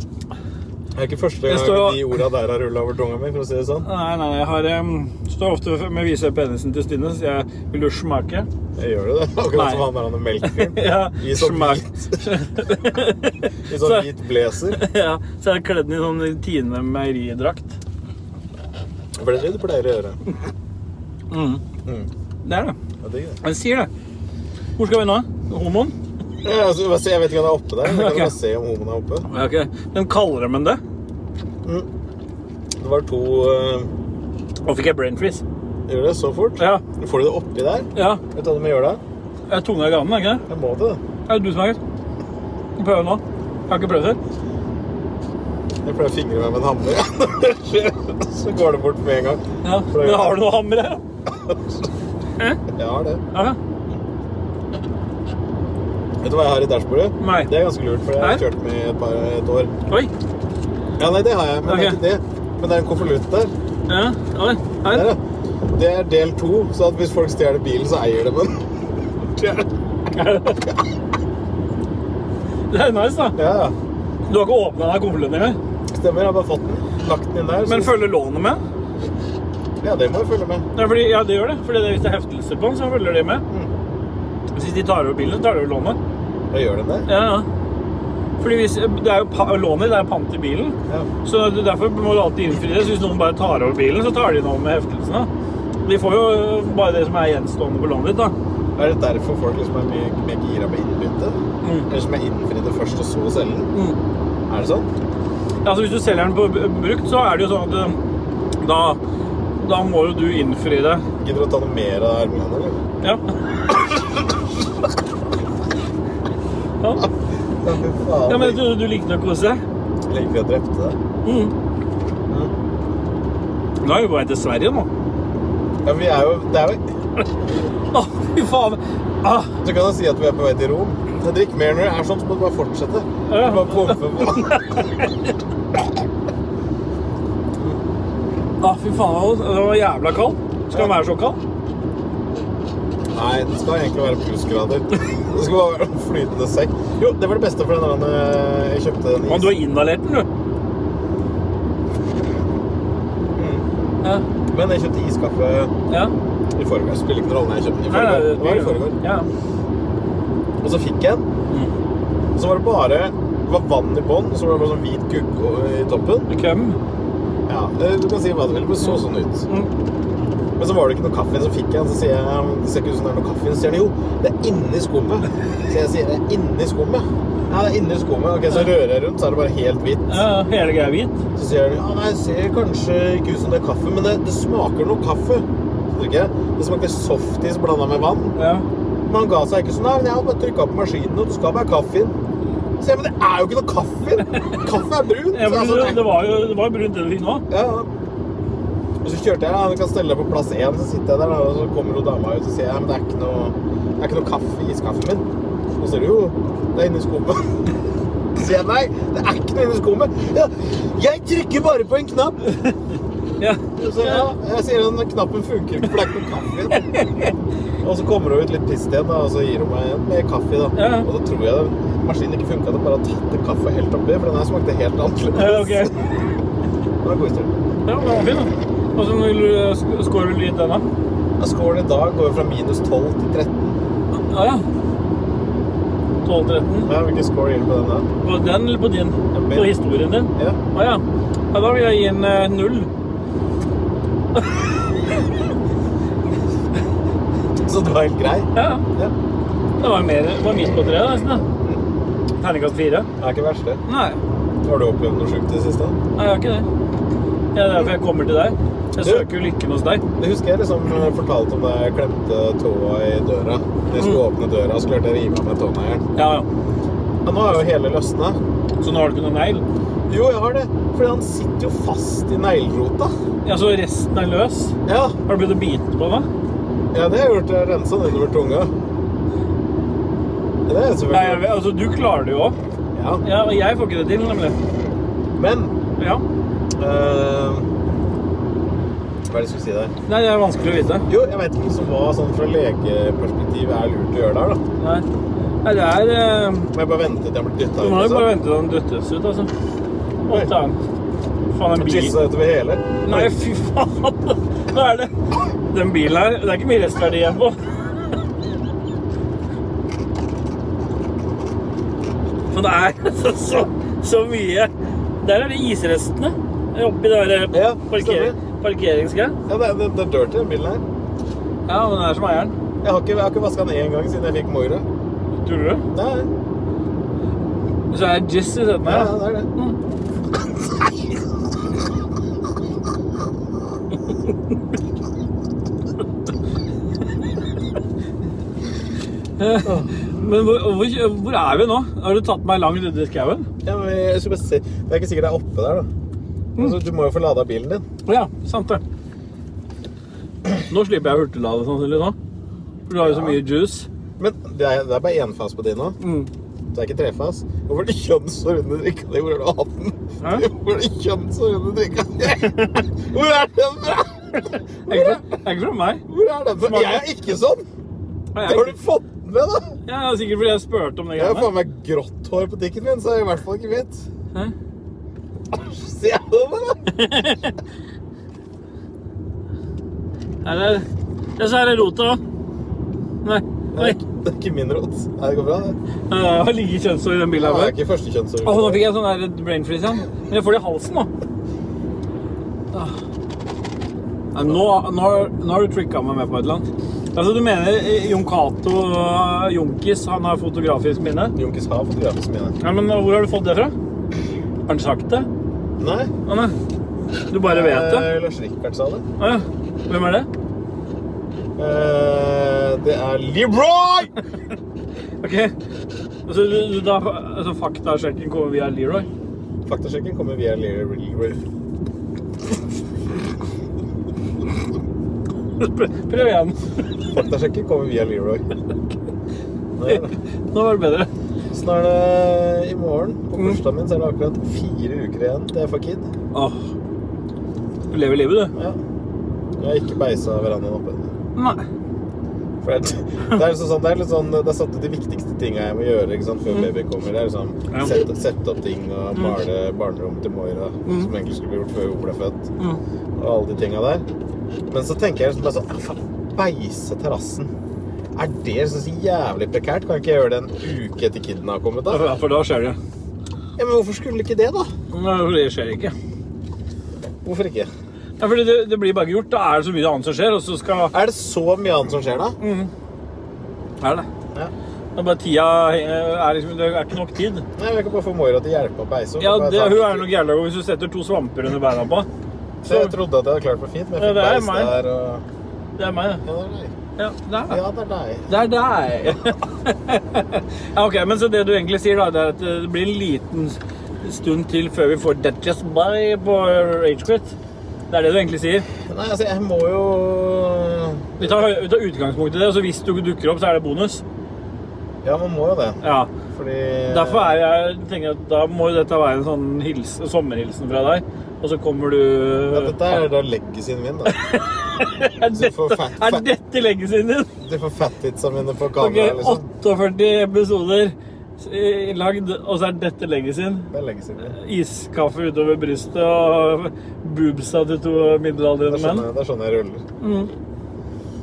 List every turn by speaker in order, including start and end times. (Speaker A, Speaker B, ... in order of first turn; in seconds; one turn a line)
Speaker A: 0.9-3.9
Speaker B: 1.5-2.1
Speaker B: 3.8-8.5
Speaker A: 8.8-12.3
Speaker B: 9.5-9.9
Speaker B: 10.4-14.1
Speaker A: 13.7-14.8
Speaker B: 14.7-17.8
Speaker A: 19.2-20.2
Speaker B: 21.3-21.6
Speaker B: 22.4-22.8
Speaker A: 23.0-23.4
Speaker B: 23.4-23.9
Speaker B: 24.8-25.9
Speaker A: 26.4-29.3
Speaker B: 27.8-28.3
Speaker B: 29.3-30.8
Speaker A: 32.8-33.9
Speaker B: 34.7-35.4
Speaker A: 35.9-39.0
Speaker B: 38.0-38.2
Speaker B: 39.5-40.5
Speaker A: 40.5-41.0
Speaker B: 41.3-41.8
Speaker B: 42.8-44.2
Speaker A: 45.8-50.4
Speaker B: 49.6-51.0
Speaker A: 51.3-51.8
Speaker A: 52.7-53.2
Speaker B: 53.3-53.6
Speaker A: 56.2-59.7
Speaker B: 57.2-57.5
Speaker A: 61.0-63.5
Speaker B: 61.7-62.0
Speaker B: 63.9-65.1
Speaker A: 64.9-69.7
Speaker B: 70.1-70.7
Speaker B: 72.7-73.4
Speaker A: 73.3-73.8
Speaker B: 74.3-75.6
Speaker A: 75.9-78.0
Speaker B: 77.7-78.6
Speaker A: 79.8-80.7
Speaker B: 80.8-83.4
Speaker B: 84.5-86.0
Speaker A: 86.5-87.1
Speaker B: 87.1-87.5
Speaker B: 88.4-95.3
Speaker B: 95.8-98.3
Speaker A: 98.8-101.4
Speaker B: 101.6-101.9
Speaker A: 101.9-103.7
Speaker A: 104.5-104.9
Speaker B: 105.6-108.0
Speaker B: 108.6-109.0
Speaker B: 109.6-111.0
Speaker A: 111.2-112.8
Speaker B: 113.0-113.7
Speaker B: 116.8-117.1
Speaker A: 117.6-118.6
Speaker B: 118.3-119.6
Speaker A: 120.1-121.0
Speaker B: 121.2-121.5
Speaker B: 123.8-124.9
Speaker A: 125.8-126.8
Speaker B: 127.9-129.6
Speaker A: 129.6-134.6
Speaker B: 133.3-135.4
Speaker B: 138.6-141.4
Speaker A: 140.7-141.0
Speaker A: 143.1-149.6
Speaker B: 149.3-150.3
Speaker A: 153.3-153.7
Speaker A: 154.5-155.7
Speaker A: 156.6-159.0
Speaker B: 157.9-159.3
Speaker A: 160.6-161.3
Speaker B: 161.5-161.7
Speaker A: 162.3-166.3
Speaker B: 166.3-166.8
Speaker A: 167.5-169.5
Speaker A: 170.6-180.2
Speaker B: 180.1-181.2
Speaker A: 181.3-188.4
Speaker B: 188.4-188.7
Speaker A: 189.1-192.2
Speaker A: 192.8-196.2
Speaker B: 195.3-197.5
Speaker A: 197.5-197.9
Speaker A: 199.0-207.7
Speaker A: 208.3-212.5
Speaker B: 213.4-214.3
Speaker A: 213.8-217.0
Speaker B: 216.7-217.3
Speaker A: 217.8-226.0
Speaker B: 220.8-221.1
Speaker B: 225.3-226.1
Speaker A: 227.0-227.6
Speaker B: 227.9-230.9
Speaker A: 231.4-233.8
Speaker B: 234.1-234.6
Speaker B: 236.2-236.9
Speaker A: 236.8-238.1
Speaker B: 238.2-242.9
Speaker A: 239.3-239.8
Speaker B: 244.4-244.7
Speaker A: 247.7-249.1
Speaker B: 248.6-248.8
Speaker B: 249.8-251.4
Speaker B: 252.4-253.1
Speaker A: 253.2-253.8
Speaker B: 253.9-254.2
Speaker A: 254.6-256.0
Speaker B: 256.2-256.6
Speaker B: 257.5-260.0
Speaker A: 259.0-259.3
Speaker A: 260.2-266.0
Speaker B: 266.2-266.5
Speaker A: 267.2-268.4
Speaker B: 268.8-269.6
Speaker A: 270.1-273.1
Speaker B: 273.4-276.3
Speaker A: 274.9-275.2
Speaker A: 276.9-278.7
Speaker A: 280.7-281.5
Speaker B: 281.1-282.6
Speaker A: 282.9-283.2
Speaker B: 283.2-284.6
Speaker A: 285.4-285.7
Speaker B: 286.0-286.2
Speaker A: 286.8-287.7
Speaker A: 289.3-289.9
Speaker B: 290.1-291.1
Speaker A: 291.1-294.6
Speaker B: 294.8-295.1
Speaker B: 295.6-296.7
Speaker A: 296.7-298.3
Speaker B: 297.8-299.5
Speaker B: 300.3-300.8
Speaker B: 301.5-302.2
Speaker A: 301.8-303.3
Speaker B: 303.0-305.1
Speaker B: 305.7-307.8
Speaker B: 312.5-314.7
Speaker B: 315.2-319.4
Speaker A: 317.5-318.4
Speaker A: 319.5-320.9
Speaker B: 321.7-322.6
Speaker A: 322.8-324.9
Speaker B: 325.4-325.9
Speaker A: 325.9-326.3
Speaker B: 327.9-329.8
Speaker A: 328.8-329.5
Speaker B: 339.4-343.5
Speaker A: 339.6-339.9
Speaker A: 343.6-345.9
Speaker A: 346.6-347.9
Speaker B: 348.1-348.8
Speaker B: 350.7-352.2
Speaker B: 352.9-353.9
Speaker A: 353.0-353.4
Speaker A: 354.2-356.0
Speaker B: 356.0-356.3
Speaker A: 356.7-365.4
Speaker B: 360.2-360.5
Speaker B: 364.9-366.0
Speaker A: 366.1-367.6
Speaker B: 366.6-367.0
Speaker B: 368.4-368.7
Speaker A: 368.4-369.8
Speaker B: 369.9-371.5
Speaker A: 371.2-374.0
Speaker A: 375.5-376.8
Speaker B: 376.9-377.6
Speaker B: 380.4-380.9
Speaker B: 381.4-382.2
Speaker B: 383.2-384.0
Speaker A: 383.7-385.8
Speaker B: 386.1-387.8
Speaker A: 387.3-388.8
Speaker B: 388.4-391.1
Speaker B: 392.7-393.0
Speaker B: 394.3-401.4
Speaker A: 401.4-402.6
Speaker B: 402.6-403.7
Speaker B: 404.7-405.3
Speaker A: 405.8-406.1
Speaker B: 406.3-406.6
Speaker B: 407.3-408.1
Speaker A: 407.4-409.1
Speaker B: 409.2-410.3
Speaker A: 411.6-414.1
Speaker B: 415.2-415.5
Speaker B: 416.3-419.1
Speaker A: 419.7-421.4
Speaker B: 425.6-426.7
Speaker A: 427.1-428.5
Speaker A: 429.8-430.1
Speaker B: 429.9-431.1
Speaker A: 431.5-436.1
Speaker B: 436.3-436.7
Speaker B: 437.9-438.5
Speaker A: 439.6-441.1
Speaker B: 441.4-441.6
Speaker A: 442.6-452.5
Speaker B: 450.9-451.1
Speaker A: 453.2-454.1
Speaker A: 454.7-457.5
Speaker A: 458.1-462.1
Speaker B: 461.9-462.8
Speaker A: 463.6-464.7
Speaker B: 464.9-465.9
Speaker A: 467.2-467.7
Speaker B: 468.2-470.9
Speaker A: 470.9-472.4
Speaker B: 472.4-472.7
Speaker B: 473.8-474.1
Speaker B: 474.9-477.5
Speaker A: 477.6-480.1
Speaker B: 479.2-482.1
Speaker A: 482.6-485.2
Speaker B: 482.6-483.0
Speaker B: 484.0-484.7
Speaker B: 485.8-486.2
Speaker A: 486.2-486.7
Speaker B: 487.0-487.6
Speaker A: 487.5-488.3
Speaker B: 488.3-497.3
Speaker B: 497.9-498.7
Speaker A: 498.8-501.4
Speaker B: 501.2-504.0
Speaker A: 505.0-507.4
Speaker B: 505.8-506.1
Speaker B: 506.9-513.0
Speaker A: 512.5-514.1
Speaker B: 514.1-517.3
Speaker A: 515.2-516.3
Speaker A: 517.4-519.5
Speaker B: 518.8-523.7
Speaker A: 523.7-524.4
Speaker B: 524.2-529.1
Speaker A: 528.6-529.9
Speaker B: 530.0-530.3